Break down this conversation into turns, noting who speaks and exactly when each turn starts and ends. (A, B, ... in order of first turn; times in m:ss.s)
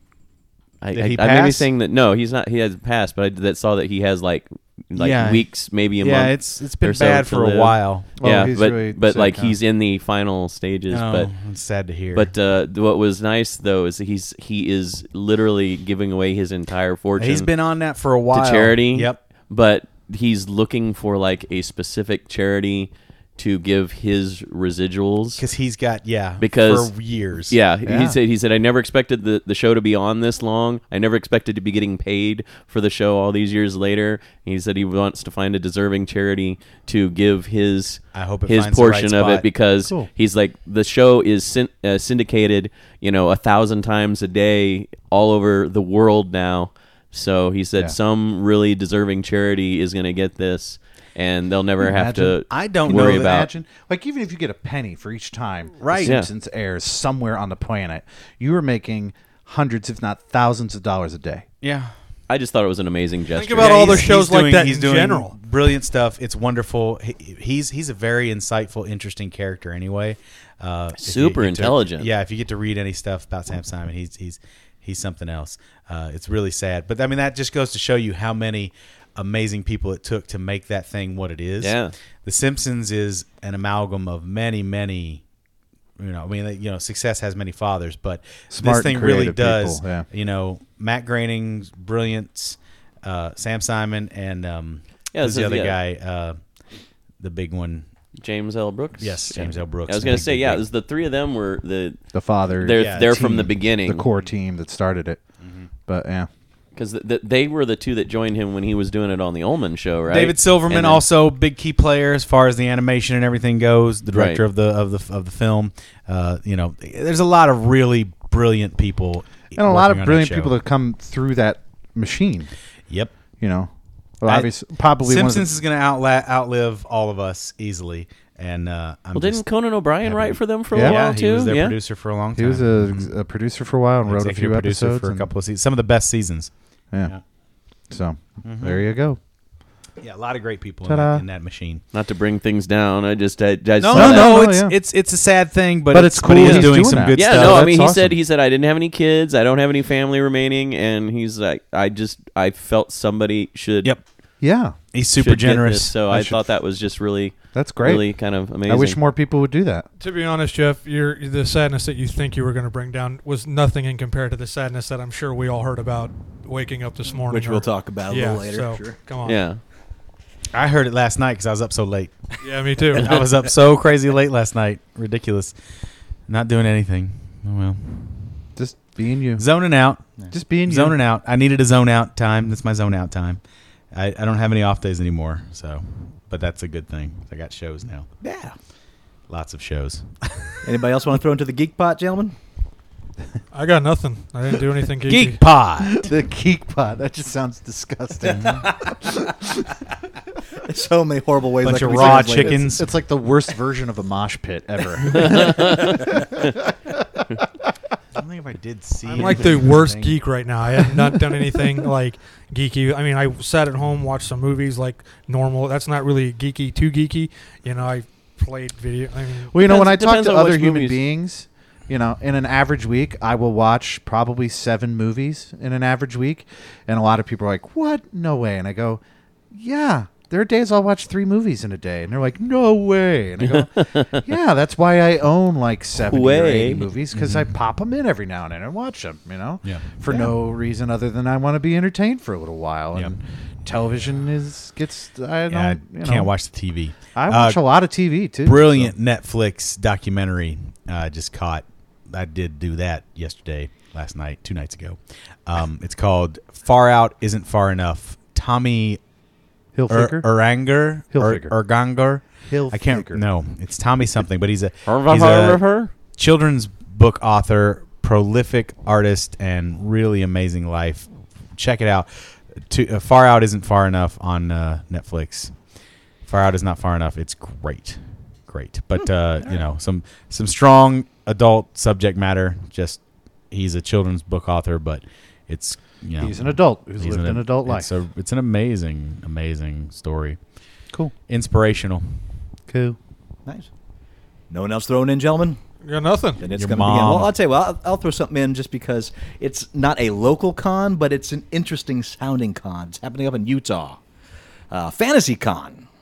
0:00.8-0:11.3 A
0:00.9-0:01.7 B
0:04.9-0:08.1 B
0:08.2-0:09.6 C
0:10.9-0:12.3 B
0:12.1-0:17.5 A
0:17.2-0:19.2 B
0:18.3-0:25.4 A
0:25.4-0:27.5 B
0:26.4-0:26.9 A
0:27.5-0:53.5 A
0:27.8-0:28.2 C
0:38.1-0:39.4 B
0:51.8-1:01.4 C
0:52.5-0:53.4 B
0:55.8-0:56.2 B
1:01.6-1:01.9 B
1:02.3-1:04.0 A
1:03.3-1:05.3 D
1:03.5-1:25.2 B
1:11.0-1:12.1 A
1:21.6-1:21.9 A
1:26.0-1:36.4 B
1:28.5-1:30.1 C
1:35.1-1:35.8 A
1:37.2-1:37.9 B
1:38.2-1:42.0 A
1:39.0-1:40.6 B
1:42.1-1:45.2 C
1:42.6-1:44.0 A
1:42.8-1:43.1 B
1:45.4-1:45.7 B
1:45.8-1:46.3 C
1:46.7-1:51.0 A
1:50.1-2:00.5 B
1:54.1-1:54.4 A
1:59.5-2:02.5 C
2:03.4-2:05.5 C
2:05.0-2:09.4 B
2:09.1-2:11.8 A
2:10.0-2:13.1 B
2:10.7-2:11.0 C
2:12.3-2:15.3 C
2:14.0-2:16.5 B
2:17.9-2:19.2 C
2:18.4-2:18.8 B
2:20.0-2:21.8 B
2:20.8-2:21.2 C
2:21.9-2:24.5 A
2:23.8-2:27.7 B
2:23.9-2:24.8 C
2:25.9-2:28.2 C
2:26.4-2:33.9 A
2:34.4-2:34.7 C
2:34.9-2:35.9 B
2:35.2-2:39.0 A
2:36.1-2:36.4 C
2:37.5-2:38.1 C
2:38.6-2:39.8 C
2:40.0-2:49.4 D
2:47.2-2:49.0 E
2:49.2-2:49.6 A
2:50.5-2:52.4 B
2:52.4-2:53.2 D
2:52.9-2:55.6 B
2:56.3-2:58.4 B
2:58.6-2:59.4 C
2:59.4-3:00.0 B
3:00.3-3:01.0 C
3:00.6-3:03.4 B
3:03.9-3:08.1 B
3:08.2-3:08.5 E
3:09.3-3:10.4 B
3:10.6-3:12.3 E
3:13.5-3:15.4 D
3:15.1-3:16.1 B
3:15.8-3:19.7 C
3:18.3-3:18.6 B
3:20.6-3:22.6 E
3:21.6-3:22.9 B
3:21.7-3:27.3 C
3:25.3-3:25.9 A
3:28.2-3:30.2 B
3:29.0-3:39.5 D
3:39.5-3:49.0 C
3:39.6-3:41.0 A
3:49.5-4:06.3 C
3:53.4-3:54.1 A
3:56.0-3:56.8 A
3:57.1-3:57.5 B
3:59.6-4:00.2 B
4:05.5-4:07.6 B
4:07.1-4:08.9 C
4:08.4-4:19.0 B
4:19.7-4:20.3 C
4:19.9-4:25.6 B
4:21.1-4:21.6 C
4:22.4-4:23.2 C
4:24.8-4:25.9 A
4:26.2-4:32.1 B
4:32.6-4:35.5 B
4:36.2-4:50.4 B
4:46.2-4:47.9 C
4:51.3-4:52.2 B
4:52.7-4:53.0 C
4:54.5-4:55.6 E
4:55.8-4:56.4 D
4:56.4-5:04.0 E
4:56.5-4:57.3 B
5:04.7-5:05.8 E